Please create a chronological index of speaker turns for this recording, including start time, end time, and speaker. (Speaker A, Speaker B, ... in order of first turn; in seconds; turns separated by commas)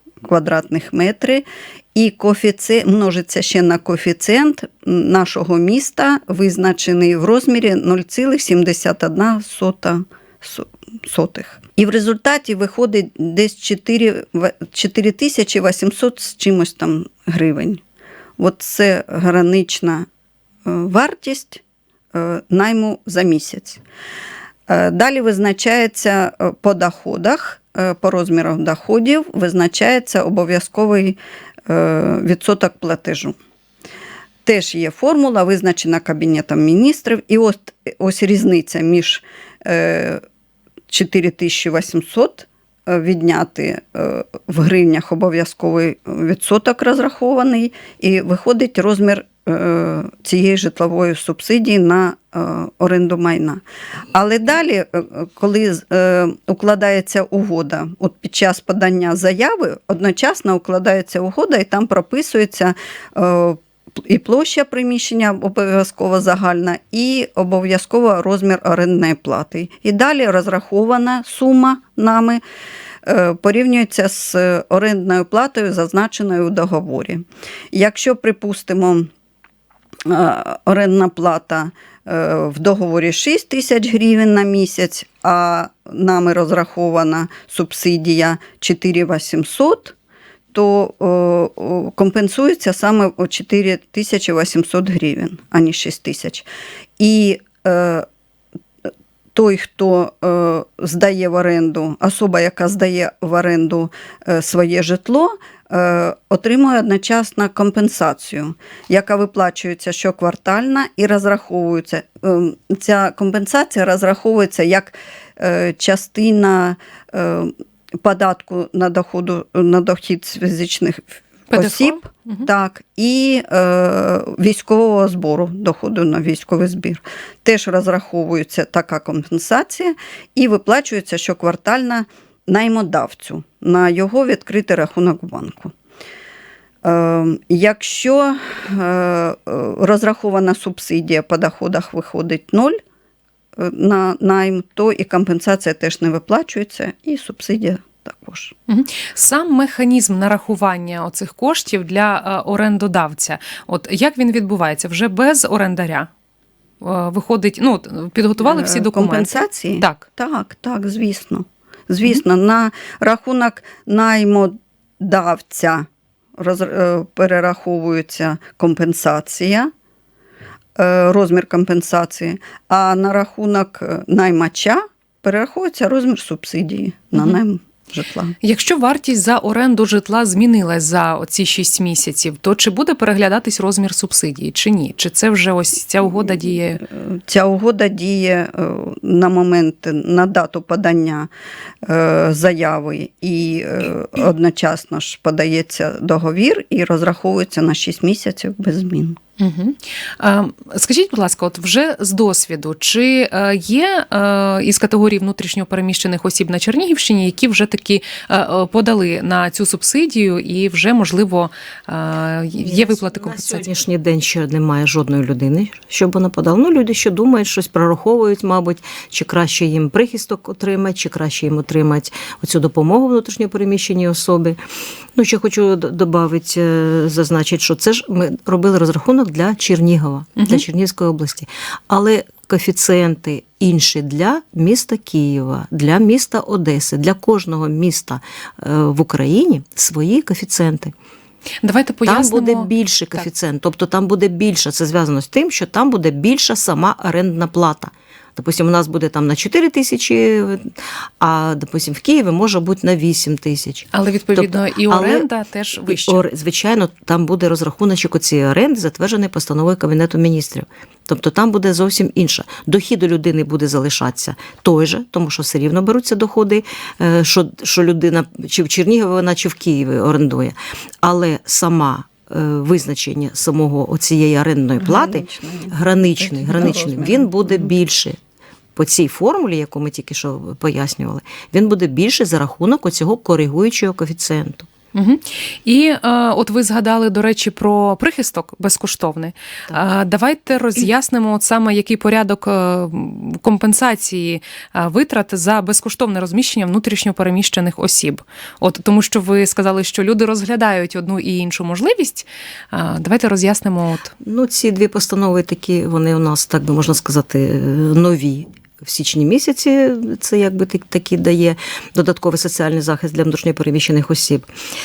Speaker A: 0.2-17.8, Speaker A: 18.4-20.1, Speaker A: 20.6-23.8, Speaker A: 24.7-33.4, Speaker A: 34.4-40.2, Speaker A: 40.9-72.4, Speaker A: 73.0-79.1, Speaker A: 80.0-89.9, Speaker A: 90.5-96.5, Speaker A: 97.0-98.0, Speaker A: 99.3-135.7, Speaker B: 121.5-122.5, Speaker A: 136.8-142.8, Speaker A: 143.6-148.5, Speaker B: 148.7-156.1, Speaker B: 156.8-160.1, Speaker A: 158.4-169.7, Speaker A: 170.8-178.3, Speaker B: 178.4-186.8, Speaker A: 186.8-191.3, Speaker A: 191.8-199.2, Speaker B: 199.4-213.7, Speaker C: 212.6-224.6, Speaker C: 225.2-240.9, Speaker B: 230.4-230.6, Speaker B: 241.6-243.2, Speaker C: 242.1-255.2, Speaker B: 253.9-256.2, Speaker C: 255.9-278.2, Speaker A: 274.8-277.7, Speaker C: 278.8-284.7, Speaker B: 284.9-304.1, Speaker C: 304.2-314.5